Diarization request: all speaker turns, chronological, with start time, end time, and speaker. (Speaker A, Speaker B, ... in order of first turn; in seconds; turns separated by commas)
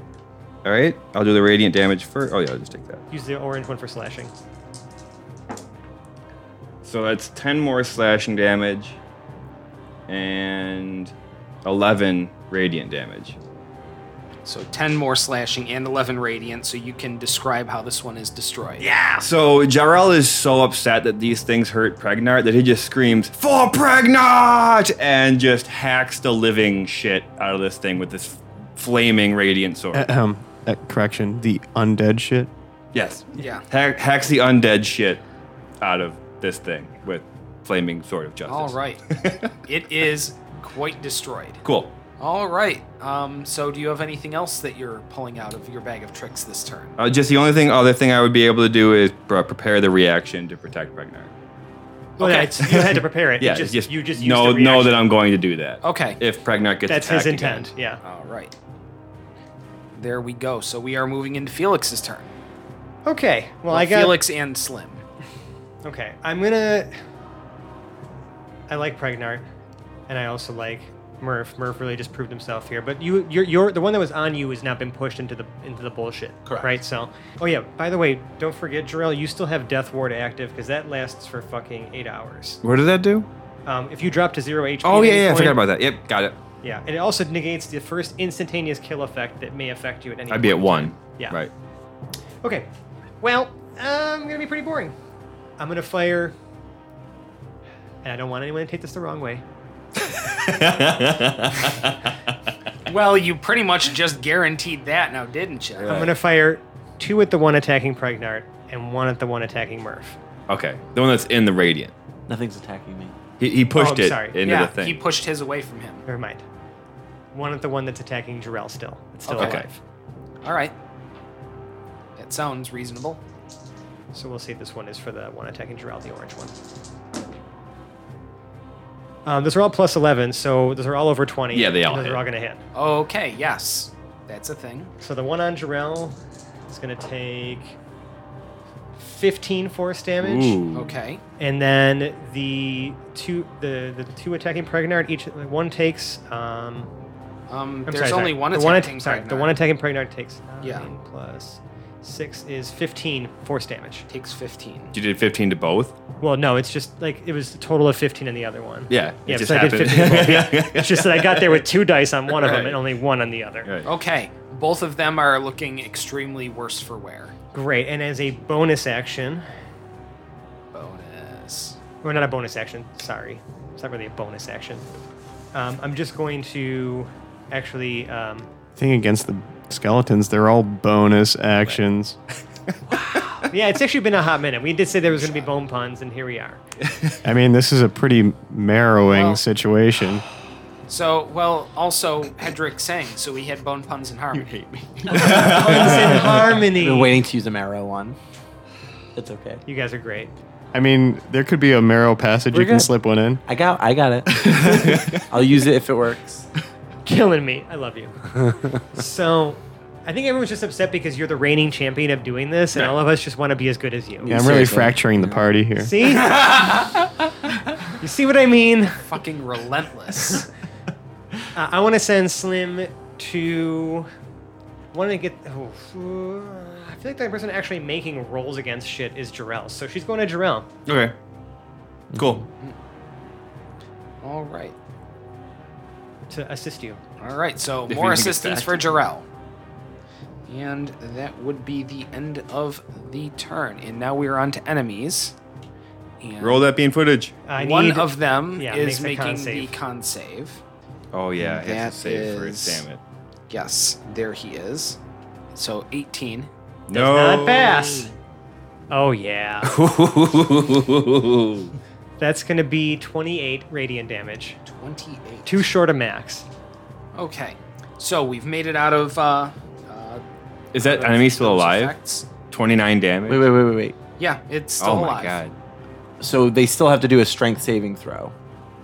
Speaker A: 0.6-3.0, Speaker B: 3.1-4.3, Speaker A: 6.8-9.0, Speaker A: 10.1-11.1, Speaker A: 11.6-13.4, Speaker C: 14.4-18.9, Speaker A: 18.8-30.1, Speaker D: 29.9-32.5, Speaker A: 32.9-35.2, Speaker C: 33.4-33.6, Speaker A: 35.8-39.5, Speaker C: 38.5-39.1, Speaker C: 39.6-41.6, Speaker A: 41.6-41.9, Speaker C: 42.2-47.0, Speaker A: 47.0-51.3, Speaker C: 52.2-52.5, Speaker B: 52.2-55.0, Speaker A: 52.6-57.7, Speaker C: 55.8-56.2, Speaker B: 56.9-58.0, Speaker C: 58.0-58.5, Speaker C: 60.0-62.3, Speaker B: 63.0-64.2, Speaker C: 63.7-65.0, Speaker B: 65.8-66.9, Speaker B: 68.7-69.4, Speaker B: 70.1-82.6, Speaker E: 76.5-76.8, Speaker A: 82.6-83.3, Speaker B: 83.7-85.6, Speaker A: 84.8-86.4, Speaker B: 86.6-91.4, Speaker A: 90.3-91.5, Speaker B: 92.4-92.7, Speaker B: 93.2-95.0, Speaker B: 95.6-96.3, Speaker B: 98.0-99.4, Speaker A: 100.0-102.0, Speaker C: 102.9-106.0, Speaker A: 105.8-106.1, Speaker B: 105.9-110.2, Speaker A: 110.5-111.9, Speaker E: 112.3-113.2, Speaker A: 113.4-115.0, Speaker B: 113.7-114.4, Speaker C: 114.4-116.0, Speaker B: 116.0-116.4, Speaker B: 117.3-119.8, Speaker C: 119.3-119.7, Speaker A: 119.4-119.7, Speaker C: 120.4-120.7, Speaker C: 122.2-123.2, Speaker B: 124.1-126.5, Speaker B: 129.3-132.6, Speaker A: 131.5-132.2, Speaker C: 132.7-134.9, Speaker B: 135.0-136.2, Speaker B: 136.7-137.8, Speaker B: 139.0-140.6, Speaker A: 140.2-141.0, Speaker C: 140.7-141.2, Speaker B: 141.4-146.9, Speaker C: 147.5-149.6, Speaker B: 147.9-154.1, Speaker C: 150.6-150.9, Speaker C: 154.1-154.9, Speaker A: 154.9-155.9, Speaker B: 156.2-163.7, Speaker A: 158.9-161.6, Speaker A: 162.3-162.8, Speaker C: 163.8-167.3, Speaker B: 167.5-169.5, Speaker C: 170.7-171.8, Speaker B: 172.0-174.8, Speaker B: 175.5-178.5, Speaker D: 178.8-182.2, Speaker B: 183.5-186.6, Speaker C: 185.1-185.5, Speaker D: 187.2-190.2, Speaker C: 189.1-189.4, Speaker C: 190.9-194.6, Speaker D: 194.4-195.2, Speaker A: 195.1-196.5, Speaker B: 195.1-197.2, Speaker E: 196.5-198.2, Speaker E: 199.1-199.6, Speaker B: 199.7-200.3, Speaker D: 200.7-203.4, Speaker E: 202.5-202.9, Speaker E: 203.4-206.5, Speaker A: 204.4-205.3, Speaker B: 207.1-208.2, Speaker B: 208.9-214.4, Speaker E: 214.2-215.4, Speaker D: 214.3-215.9, Speaker B: 215.8-216.4, Speaker C: 216.2-216.9, Speaker B: 218.0-219.0, Speaker C: 219.0-220.5, Speaker B: 221.6-224.1, Speaker B: 224.9-230.7, Speaker A: 230.9-231.1, Speaker A: 232.1-232.4, Speaker C: 234.2-234.8, Speaker B: 236.3-237.0, Speaker C: 237.2-239.2, Speaker A: 237.9-239.0, Speaker C: 240.5-245.3, Speaker C: 246.2-246.7, Speaker A: 246.4-247.4, Speaker B: 247.4-249.8, Speaker C: 247.6-250.6, Speaker A: 251.1-253.0, Speaker C: 251.4-252.8, Speaker C: 253.5-255.0, Speaker C: 255.5-256.5, Speaker A: 256.9-258.1, Speaker B: 256.9-258.1, Speaker B: 258.9-259.7, Speaker A: 259.6-261.7, Speaker B: 262.2-264.6, Speaker C: 264.6-265.7, Speaker B: 265.4-266.4, Speaker C: 267.1-270.2, Speaker A: 270.7-271.9, Speaker C: 270.8-272.3, Speaker A: 272.5-273.5, Speaker E: 273.3-274.0, Speaker C: 274.2-275.4, Speaker A: 274.8-275.5, Speaker E: 276.2-278.3